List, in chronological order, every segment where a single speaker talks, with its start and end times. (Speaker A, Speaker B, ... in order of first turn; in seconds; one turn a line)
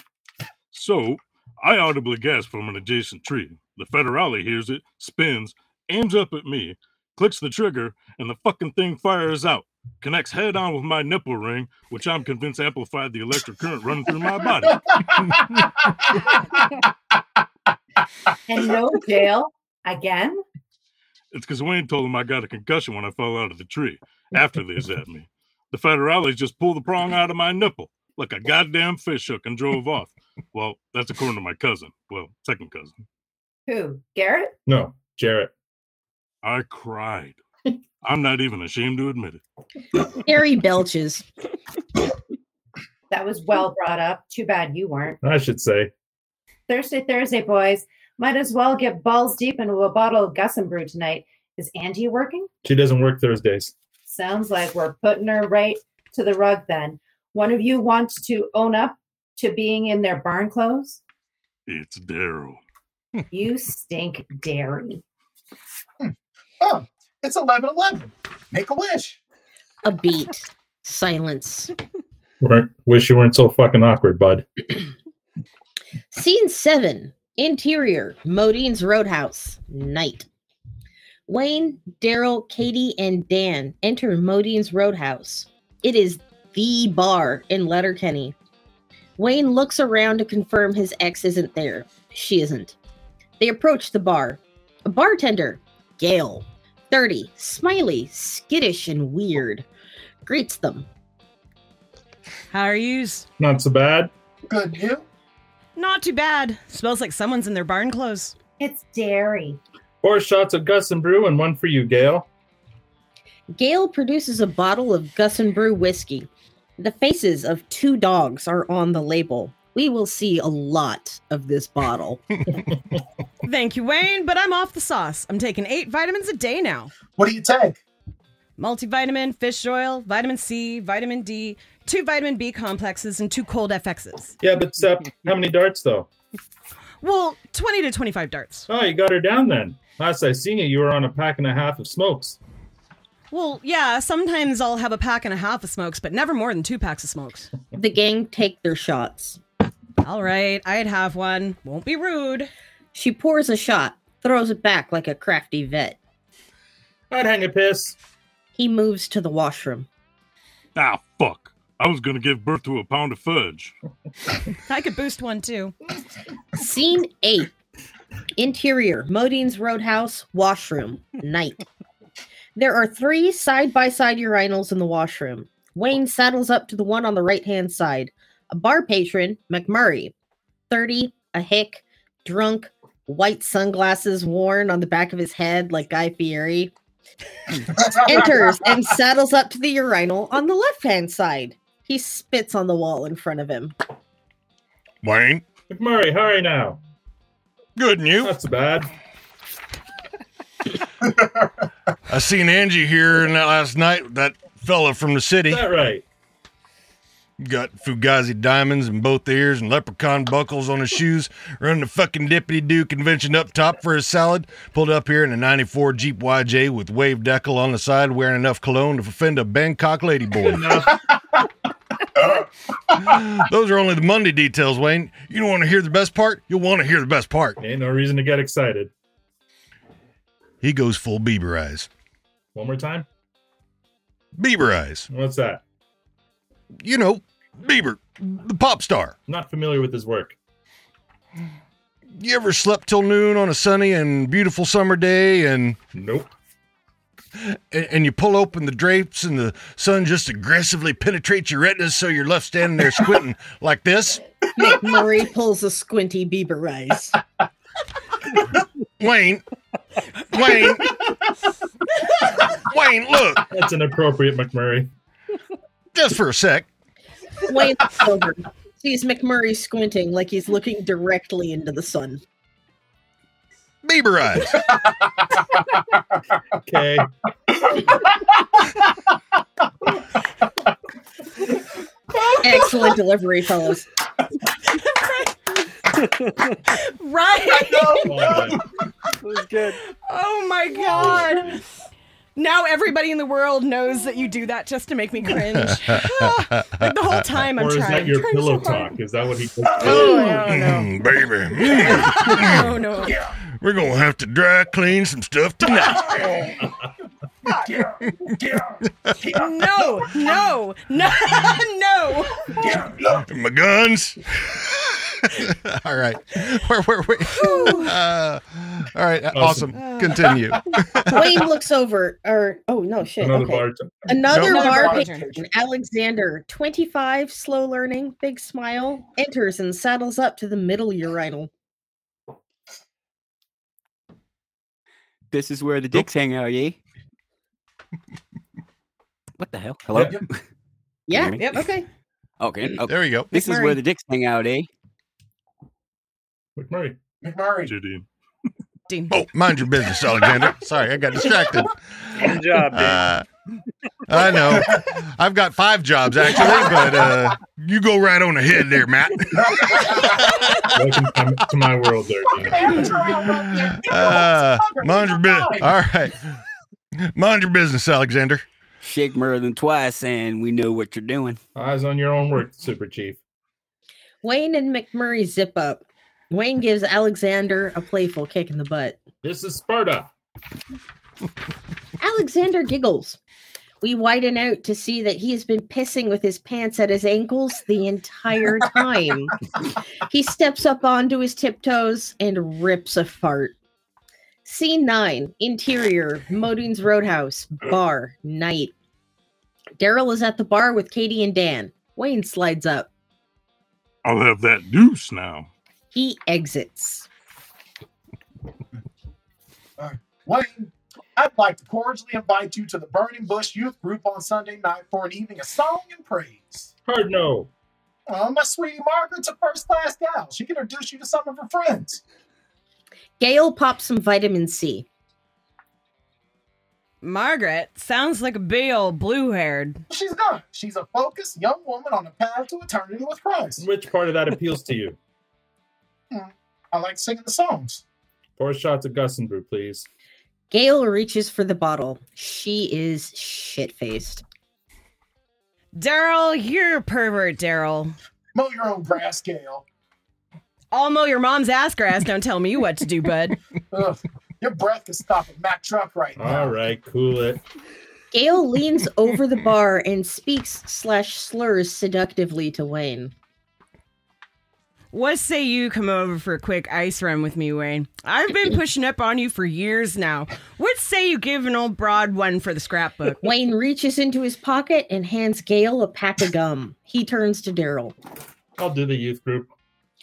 Speaker A: 0.7-14.8
Speaker B: 14.9-16.9
Speaker C: 18.5-20.4
Speaker A: 21.3-32.9
Speaker C: 33.7-34.5
Speaker D: 34.7-35.5
Speaker A: 36.4-37.4
Speaker A: 38.0-39.4
Speaker E: 40.1-41.2
Speaker C: 43.1-45.2
Speaker D: 45.2-45.9
Speaker C: 46.7-52.5
Speaker D: 52.6-53.7
Speaker C: 54.0-61.0
Speaker A: 61.7-62.6
Speaker C: 63.3-65.0
Speaker B: 66.0-69.2
Speaker E: 69.8-71.7
Speaker D: 72.4-74.4
Speaker E: 76.1-80.3
Speaker E: 81.3-88.3
Speaker E: 89.2-92.8
Speaker E: 93.4-99.7
Speaker E: 100.2-100.9
Speaker F: 102.5-103.2
Speaker D: 103.4-104.1
Speaker B: 104.5-105.0
Speaker F: 105.8-108.3
Speaker C: 108.6-109.6
Speaker D: 110.0-112.3
Speaker E: 113.5-122.4
Speaker F: 123.4-126.9
Speaker B: 127.2-127.8
Speaker F: 128.6-134.4
Speaker D: 134.4-136.1
Speaker F: 137.0-138.7
Speaker D: 138.7-142.4
Speaker F: 143.3-147.5
Speaker E: 147.7-149.4
Speaker F: 150.0-152.5
Speaker E: 152.9-156.0
Speaker D: 157.1-158.0
Speaker E: 158.5-159.9
Speaker A: 160.8-163.7
Speaker F: 164.7-165.8
Speaker E: 166.6-167.5
Speaker E: 168.4-171.6
Speaker E: 172.6-180.1
Speaker E: 180.7-186.7
Speaker B: 187.7-188.6
Speaker E: 188.0-193.8
Speaker G: 195.0-195.5
Speaker D: 195.7-196.8
Speaker G: 197.8-198.3
Speaker D: 198.2-198.9
Speaker G: 202.1-205.6
Speaker D: 205.5-206.0
Speaker G: 207.4-220.9
Speaker D: 220.4-221.0
Speaker G: 222.9-227.6
Speaker D: 227.6-228.9
Speaker G: 230.6-231.9
Speaker D: 232.5-233.1
Speaker G: 234.4-235.1
Speaker D: 235.1-235.6
Speaker G: 236.8-239.1
Speaker D: 239.3-240.4
Speaker G: 242.1-245.8
Speaker D: 245.9-246.3
Speaker G: 247.4-254.2
Speaker E: 254.6-257.2
Speaker G: 259.0-259.4
Speaker G: 260.3-261.1
Speaker G: 262.5-263.4
Speaker D: 263.5-264.9
Speaker G: 265.9-266.7
Speaker E: 267.4-272.2
Speaker G: 273.8-274.6
Speaker B: 274.7-275.4
Speaker D: 276.6-277.1
Speaker B: 277.6-278.6
Speaker B: 282.1-282.9
Speaker E: 282.4-283.9
Speaker F: 284.6-285.4
Speaker H: 286.0-286.6
Speaker F: 286.7-288.2
Speaker B: 287.6-288.6
Speaker D: 288.0-288.6
Speaker H: 289.2-289.8
Speaker F: 290.1-291.6
Speaker F: 292.4-298.9
Speaker G: 295.9-296.9
Speaker D: 297.6-300.3
Speaker F: 299.8-300.9
Speaker G: 299.8-302.7
Speaker B: 299.8-300.3
Speaker F: 301.6-303.1
Speaker B: 303.0-303.3
Speaker G: 303.6-306.5
Speaker B: 305.8-306.7
Speaker B: 307.5-309.9
Speaker F: 309.3-312.7
Speaker B: 312.6-313.2
Speaker G: 313.2-321.2
Speaker F: 317.3-317.9
Speaker D: 319.3-319.7
Speaker F: 319.7-320.4
Speaker E: 321.1-331.5
Speaker D: 323.2-324.1
Speaker B: 324.3-325.4
Speaker F: 324.4-325.3
Speaker I: 335.3-336.8
Speaker I: 339.4-340.4
Speaker E: 341.1-341.9
Speaker I: 341.1-341.6
Speaker F: 341.4-341.6
Speaker I: 342.4-344.7
Speaker G: 342.8-343.3
Speaker E: 343.3-343.8
Speaker D: 346.6-347.0
Speaker B: 347.2-347.7
Speaker A: 347.7-348.1
Speaker F: 348.9-349.2
Speaker G: 349.1-353.2
Speaker H: 352.2-353.1
Speaker G: 354.1-360.8
Speaker B: 359.6-360.1
Speaker D: 360.6-363.0
Speaker B: 362.3-365.7
Speaker G: 363.4-366.4
Speaker G: 367.0-368.4
Speaker I: 368.8-371.4
Speaker D: 371.6-373.2
Speaker E: 374.2-379.0
Speaker D: 379.2-380.1
Speaker E: 382.0-383.2
Speaker E: 383.8-389.4
Speaker E: 390.1-393.6
Speaker E: 394.4-398.7
Speaker E: 399.8-402.9
Speaker A: 404.1-405.5
Speaker E: 405.9-407.1
Speaker B: 409.8-416.7
Speaker D: 416.9-417.5
Speaker B: 418.1-422.0
Speaker E: 423.2-424.9
Speaker F: 427.0-429.8
Speaker B: 429.9-433.6
Speaker D: 433.6-435.0
Speaker B: 436.1-437.8
Speaker D: 438.4-439.9
Speaker E: 440.5-444.2
Speaker F: 445.8-447.9
Speaker B: 448.4-449.6
Speaker F: 450.7-453.4
Speaker B: 453.7-456.6
Speaker D: 456.2-457.4
Speaker E: 458.1-463.1
Speaker F: 464.9-473.2
Speaker E: 473.2-477.9
Speaker D: 478.6-479.5